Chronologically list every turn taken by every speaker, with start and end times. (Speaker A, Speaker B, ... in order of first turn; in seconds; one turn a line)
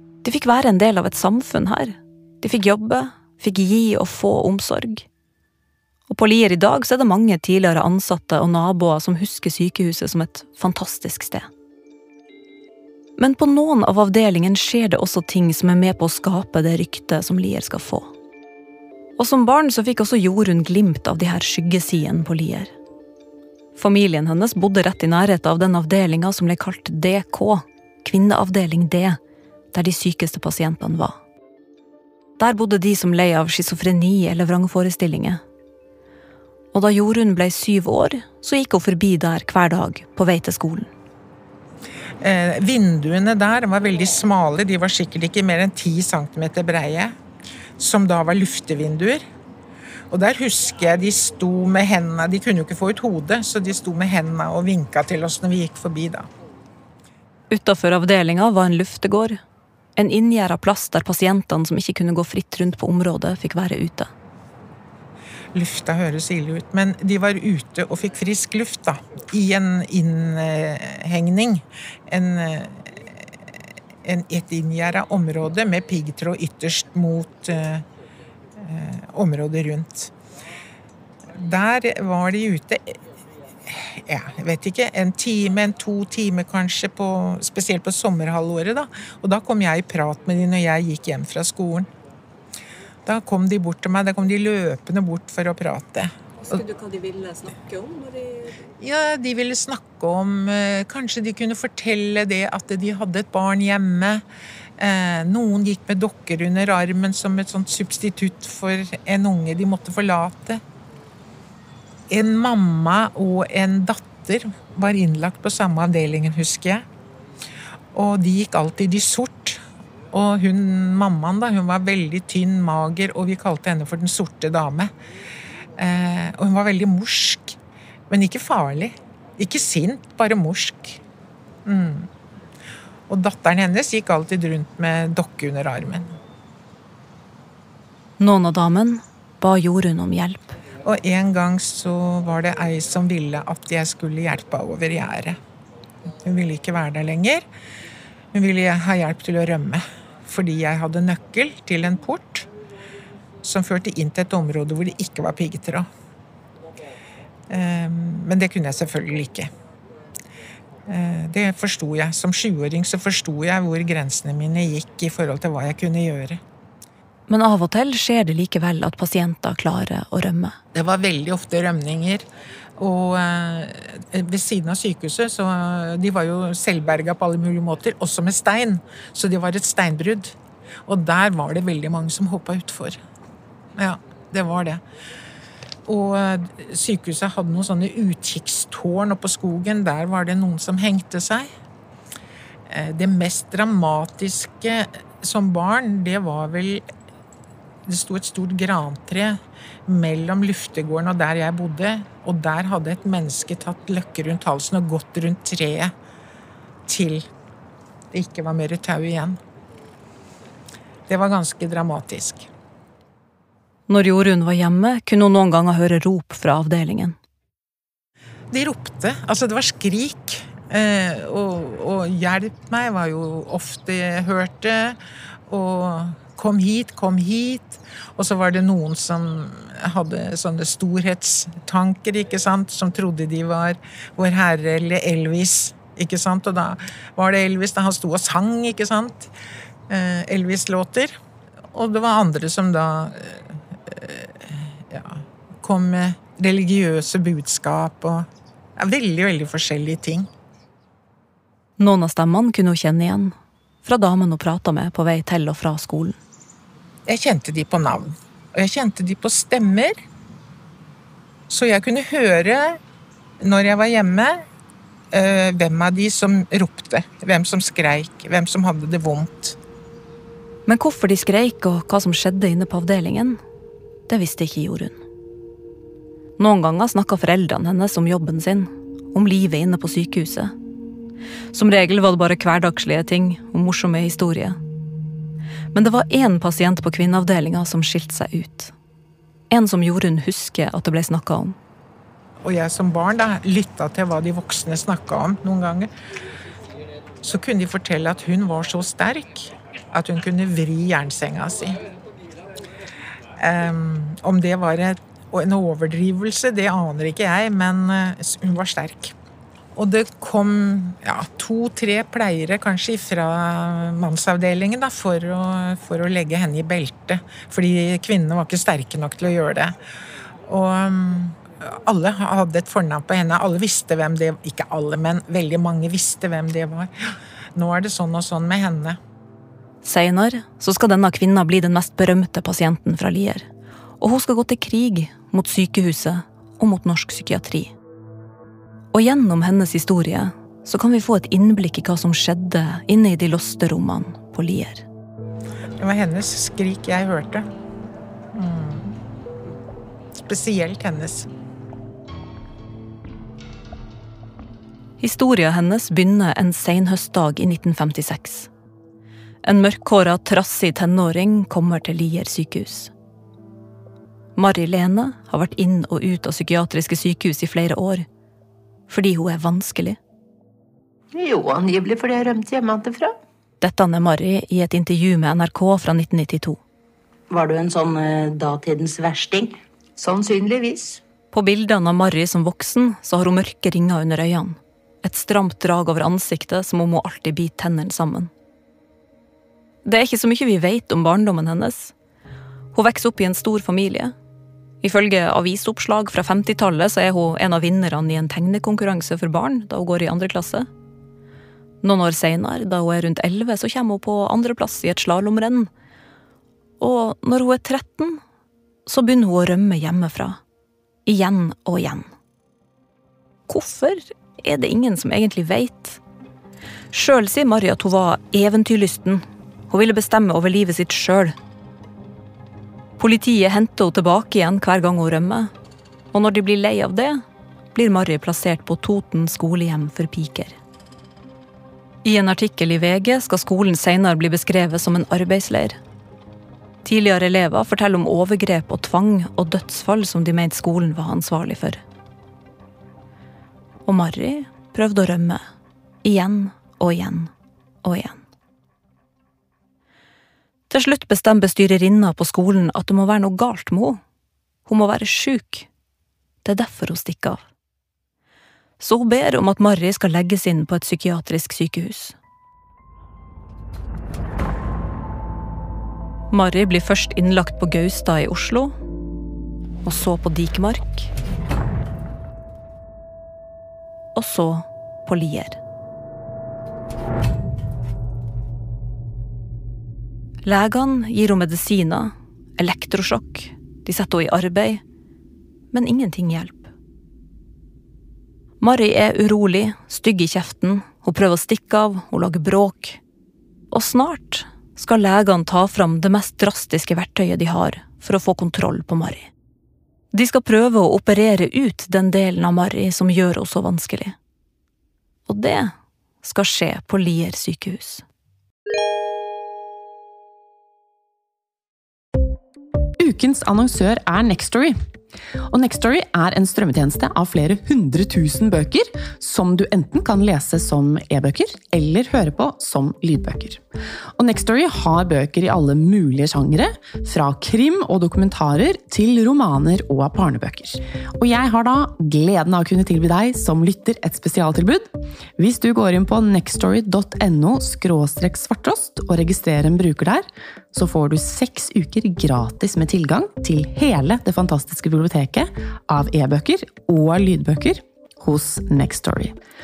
Speaker A: 0.2-5.0
Speaker A: 6.1-11.5
Speaker A: 13.2-18.1
Speaker A: 19.2-22.7
Speaker A: 23.8-29.2
Speaker A: 29.7-31.2
Speaker A: 32.4-35.4
Speaker A: 36.7-40.9
Speaker B: 42.2-47.1
Speaker B: 47.8-49.2
Speaker B: 50.1-56.3
Speaker A: 57.5-59.4
Speaker A: 60.0-64.1
Speaker B: 65.5-73.1
Speaker B: 74.0-77.8
Speaker B: 78.6-80.1
Speaker B: 81.3-83.0
Speaker B: 83.7-91.9
Speaker B: 93.0-96.1
Speaker A: 96.5-98.1
Speaker B: 98.8-104.2
Speaker B: 104.8-110.6
Speaker B: 112.1-116.8
Speaker B: 117.9-119.6
Speaker B: 120.1-124.9
Speaker B: 125.8-127.6
Speaker B: 128.1-131.0
Speaker B: 131.6-132.1
Speaker B: 133.1-136.1
Speaker A: 138.2-140.6
Speaker B: 140.8-145.4
Speaker B: 146.2-147.4
Speaker B: 148.3-152.5
Speaker B: 153.4-155.9
Speaker B: 157.5-159.5
Speaker B: 160.9-166.4
Speaker A: 167.3-170.6
Speaker B: 170.7-172.2
Speaker B: 172.8-180.4
Speaker B: 180.9-183.0
Speaker B: 183.8-184.8
Speaker B: 185.9-191.5
Speaker B: 192.7-196.8
Speaker B: 197.9-205.9
Speaker B: 206.9-207.3
Speaker B: 208.1-209.4
Speaker B: 211.1-212.5
Speaker A: 213.9-217.2
Speaker B: 218.5-239.3
Speaker B: 239.9-241.1
Speaker B: 241.7-250.3
Speaker A: 251.8-256.2
Speaker B: 257.1-260.0
Speaker B: 261.5-262.8
Speaker B: 263.4-264.4
Speaker B: 265.1-269.6
Speaker A: 270.6-273.4
Speaker A: 274.1-275.0
Speaker A: 276.4-280.5
Speaker A: 281.5-284.6
Speaker A: 285.7-288.7
Speaker A: 289.5-291.6
Speaker B: 292.4-295.9
Speaker B: 297.2-301.8
Speaker B: 303.4-309.1
Speaker B: 309.8-319.8
Speaker B: 320.5-326.9
Speaker B: 327.5-329.0
Speaker A: 329.8-333.5
Speaker A: 334.0-337.7
Speaker A: 338.9-344.8
Speaker B: 345.8-347.5
Speaker B: 348.3-349.0
Speaker B: 350.2-351.3
Speaker A: 355.0-358.5
Speaker A: 359.4-362.9
Speaker A: 364.4-368.1
Speaker A: 368.9-370.0
Speaker C: 371.2-373.1
Speaker A: 373.6-376.6
Speaker C: 377.4-379.5
Speaker C: 380.0-380.8
Speaker A: 381.3-388.3
Speaker A: 389.8-391.9
Speaker A: 392.7-394.1
Speaker A: 394.8-400.7
Speaker A: 401.8-405.7
Speaker A: 406.8-408.2
Speaker A: 408.9-410.4
Speaker A: 411.1-412.1
Speaker A: 413.5-416.0
Speaker A: 416.9-421.4
Speaker A: 423.0-425.5
Speaker A: 426.1-427.2
Speaker A: 427.7-430.6
Speaker A: 432.0-435.8
Speaker A: 436.8-441.8
Speaker A: 443.8-445.4
Speaker A: 446.0-447.3
Speaker A: 447.8-448.2
Speaker A: 450.7-454.0
Speaker A: 454.7-455.7
Speaker A: 456.4-457.4
Speaker A: 458.8-462.1
Speaker A: 466.3-468.7
Speaker A: 469.8-471.1
Speaker A: 474.1-475.6
Speaker A: 480.4-484.8
Speaker A: 485.7-486.7
Speaker A: 488.6-493.0
Speaker A: 493.7-499.3
Speaker A: 500.1-504.1
Speaker A: 505.3-508.0
Speaker D: 513.0-514.8
Speaker D: 515.5-523.6
Speaker D: 524.2-549.4